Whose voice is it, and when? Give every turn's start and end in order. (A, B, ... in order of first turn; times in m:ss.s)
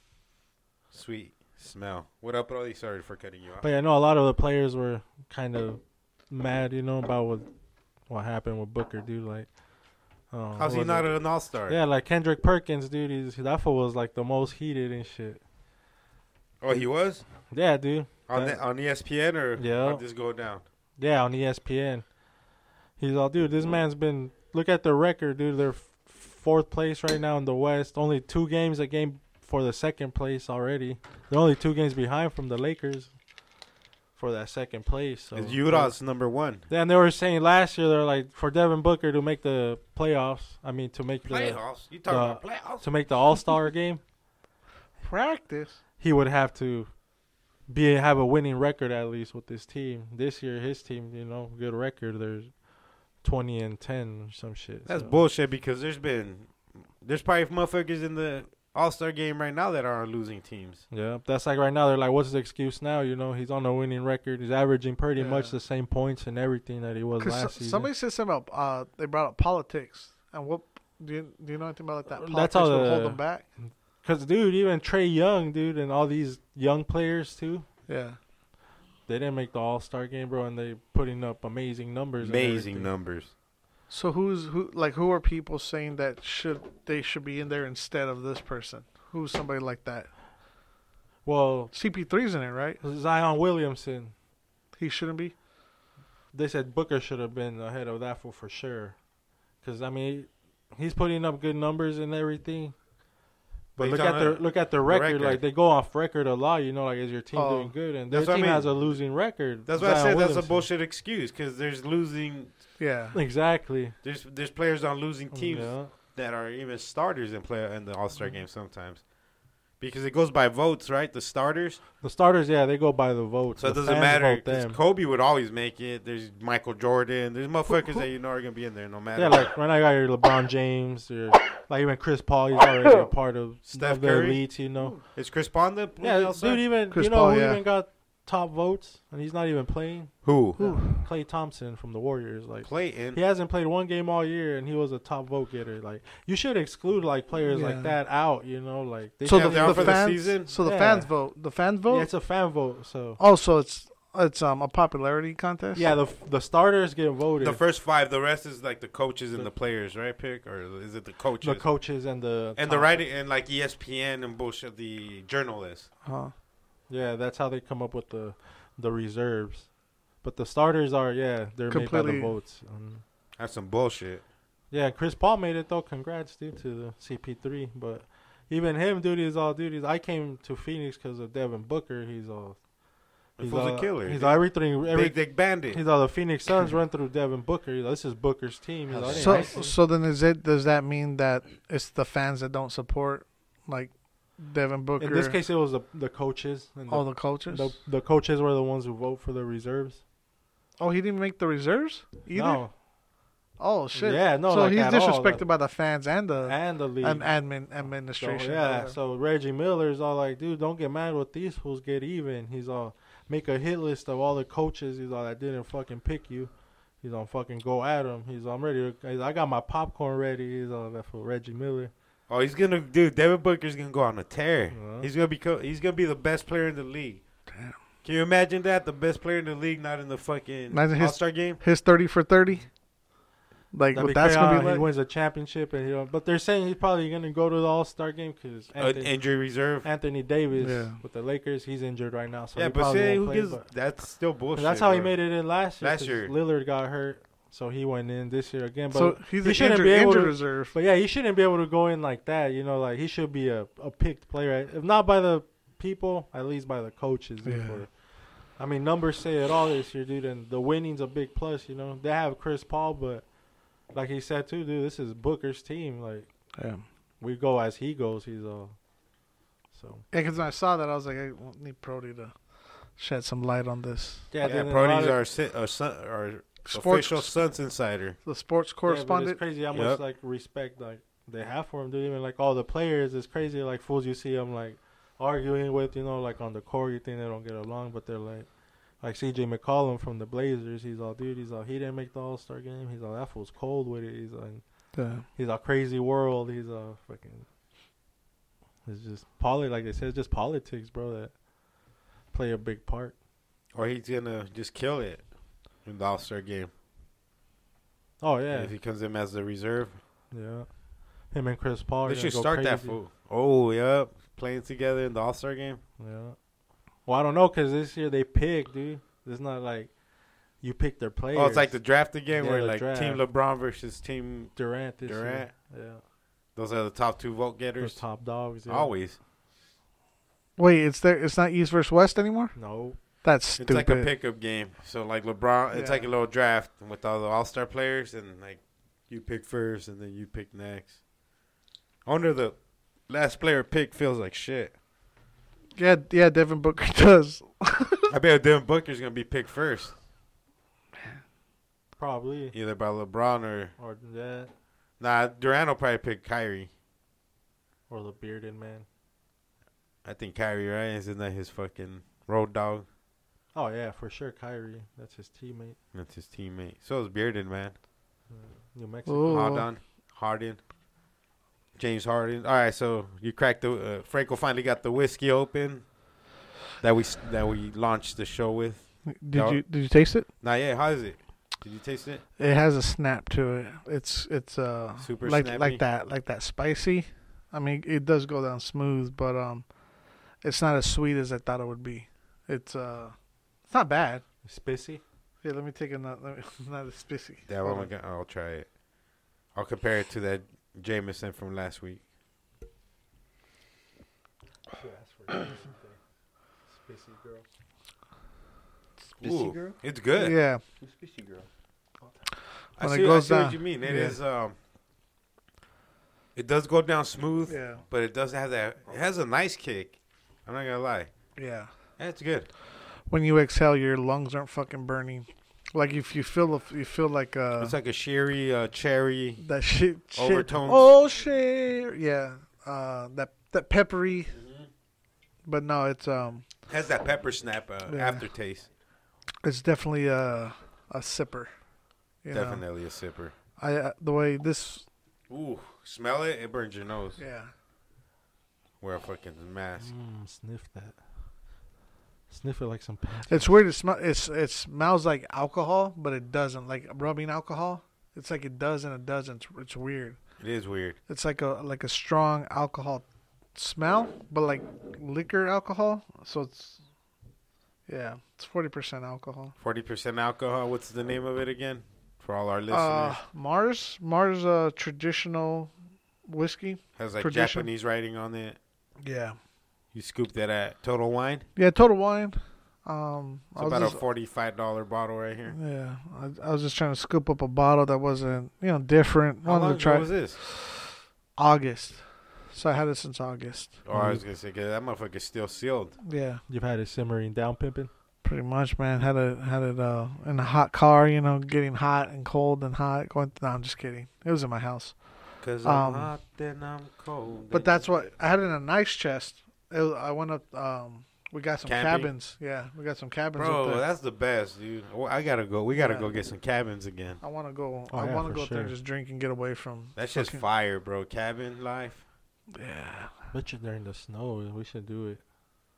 0:00.9-0:03.6 A
0:03.6-0:07.5 B
0:08.1-0:09.6 B
0:10.2-0:15.4 B
0:10.6-0:11.8 A
0:16.6-0:17.2 A
0:17.4-0:18.6 B
0:18.3-0:20.6 A
0:19.6-0:20.0 B
0:21.0-0:22.1 B
0:23.0-0:33.1 B
0:34.2-0:36.0 B
0:35.3-0:36.6 A
0:36.7-0:44.0 B
0:41.3-0:42.9 A
0:45.0-0:45.8 C
0:46.0-0:47.0 B
0:47.7-0:52.6 B
0:53.2-0:55.2 B
0:54.8-1:00.8 A
1:00.9-1:07.9 B
1:05.2-1:05.5 C
1:07.2-1:13.5 C
1:12.1-1:17.7 B
1:17.9-1:18.2 C
1:19.1-1:22.9 B
1:22.2-1:23.3 A
1:23.9-1:30.1 C
1:31.2-1:31.7 B
1:31.7-1:32.8 C
1:32.8-1:34.1 B
1:34.7-1:35.4 C
1:36.3-1:39.0 B
1:39.6-1:42.8 B
1:43.8-1:50.7 B
1:43.8-1:45.4 A
1:47.3-1:47.7 C
1:48.1-1:52.5 A
1:52.8-1:53.2 C
1:53.1-1:54.0 B
1:54.0-1:59.0 A
1:55.3-1:55.9 B
1:59.8-2:01.8 A
2:02.0-2:04.8 B
2:03.6-2:09.5 A
2:09.1-2:15.0 B
2:13.7-2:14.6 A
2:15.1-2:16.6 A
2:16.0-2:31.1 B
2:16.9-2:17.6 C
2:20.2-2:20.9 A
2:20.6-2:21.0 C
2:22.6-2:23.2 A
2:27.5-2:28.0 C
2:29.2-2:32.1 C
2:29.3-2:30.5 A
2:31.9-2:33.2 B
2:33.2-2:35.9 C
2:35.7-2:37.6 B
2:37.4-2:41.7 A
2:41.4-2:43.0 B
2:42.6-2:45.9 A
2:46.0-2:46.3 C
2:46.9-2:53.0 B
2:51.7-2:52.3 C
2:53.4-2:54.2 A
2:54.7-3:02.6 B
3:03.4-3:09.8 B
3:03.4-3:05.8 A
3:08.9-3:09.6 D
3:09.2-3:15.4 C
3:15.0-3:20.0 B
3:16.9-3:17.8 C
3:20.8-3:22.7 C
3:22.3-3:22.7 B
3:23.6-3:29.0 C
3:23.9-3:25.4 B
3:26.4-3:41.9 B
3:42.3-3:47.2 A
3:44.7-3:45.1 B
3:48.0-3:51.6 A
3:50.7-3:52.7 C
3:53.7-3:54.9 C
3:53.9-4:03.7 B
3:58.8-3:59.8 A
4:00.6-4:01.0 C
4:02.6-4:06.3 A
4:04.5-4:26.3 B
4:08.9-4:10.7 C
4:17.4-4:17.8 C
4:26.6-4:26.8 C
4:27.2-4:28.8 B
4:29.7-4:30.0 B
4:30.1-4:32.4 C
4:32.9-4:34.3 C
4:34.3-4:35.2 B
4:34.4-4:38.2 A
4:36.6-4:37.3 C
4:38.2-4:39.4 C
4:38.8-4:57.5 B
4:39.7-4:40.0 A
4:54.9-4:55.2 C
4:58.8-5:01.4 B
5:02.3-5:03.1 B
5:03.7-5:05.2 A
5:05.8-5:06.7 A
5:08.2-5:08.7 B
5:08.5-5:10.0 A
5:10.3-5:13.0 B
5:12.0-5:15.8 A
5:16.0-5:16.4 B
5:17.0-5:20.0 B
5:20.6-5:23.2 B
5:21.3-5:25.5 A
5:24.6-5:26.0 B
5:26.6-5:29.2 A
5:27.8-5:28.9 B
5:30.6-5:32.6 C
5:32.5-5:33.0 B
5:33.2-5:34.1 C
5:33.6-5:41.0 A
5:35.7-5:36.0 C
5:42.0-5:44.7 A
5:45.8-5:48.1 C
5:48.1-5:50.0 A
5:52.0-5:52.6 B
5:52.5-5:53.7 A
5:53.8-5:54.5 B
5:55.0-5:56.7 A
5:57.9-5:58.8 B
6:00.0-6:02.8 A
6:03.5-6:05.8 B
6:05.9-6:07.8 A
6:08.3-6:09.4 B
6:09.1-6:09.7 C
6:09.3-6:10.6 A
6:11.8-6:15.9 A
6:16.8-6:19.6 A
6:19.1-6:20.2 C
6:20.4-6:22.2 A
6:22.4-6:29.8 C
6:25.0-6:25.8 A
6:30.4-6:33.2 C
6:33.7-6:34.2 C
6:34.4-6:35.0 B
6:35.4-6:37.9 C
6:37.5-6:38.7 A
6:39.5-6:42.0 A
6:44.8-6:46.0 B
6:46.7-6:47.4 B
6:49.2-6:49.8 D
6:49.2-6:50.4 A
6:50.2-6:50.6 C
6:50.8-6:51.5 D
6:52.8-6:54.5 A
6:52.8-6:54.2 C
6:56.3-7:01.1 A
6:57.5-6:57.8 C
7:01.4-7:01.7 C
7:02.0-7:02.5 A
7:03.1-7:07.8 C
7:07.6-7:09.4 A
7:09.4-7:14.4 C
7:10.1-7:10.9 A
7:14.4-7:14.7 A
7:15.4-7:16.4 C
7:16.7-7:18.7 A
7:17.9-7:18.2 C
7:19.4-7:21.5 C
7:22.2-7:22.6 C
7:22.3-7:23.3 A
7:23.6-7:24.8 C
7:25.3-7:27.2 A
7:27.2-7:27.5 C
7:28.8-7:29.9 A
7:29.8-7:31.0 B
7:32.3-7:33.6 B
7:33.3-7:40.2 C
7:40.4-7:41.0 A
7:41.1-7:46.8 C
7:47.9-7:49.5 C
7:49.6-7:53.2 A
7:52.7-7:55.7 C
7:56.2-7:57.7 C
7:57.0-7:58.6 A
7:59.0-7:59.4 C
7:59.9-8:01.5 A
8:01.6-8:04.0 C
8:03.6-8:05.6 A
8:05.5-8:10.8 C
8:09.4-8:10.4 A
8:11.4-8:13.8 C
8:13.8-8:16.0 A
8:13.9-8:14.2 B
8:16.0-8:16.4 C
8:16.5-8:17.9 B
8:18.2-8:26.1 C
8:25.4-8:27.8 A
8:27.5-8:33.8 C
8:31.6-8:32.1 A
8:33.4-8:37.2 A
8:35.7-8:36.1 C
8:37.2-8:40.4 C
8:37.9-8:38.8 B
8:40.0-8:42.0 A
8:42.5-8:43.2 C
8:43.3-8:45.2 B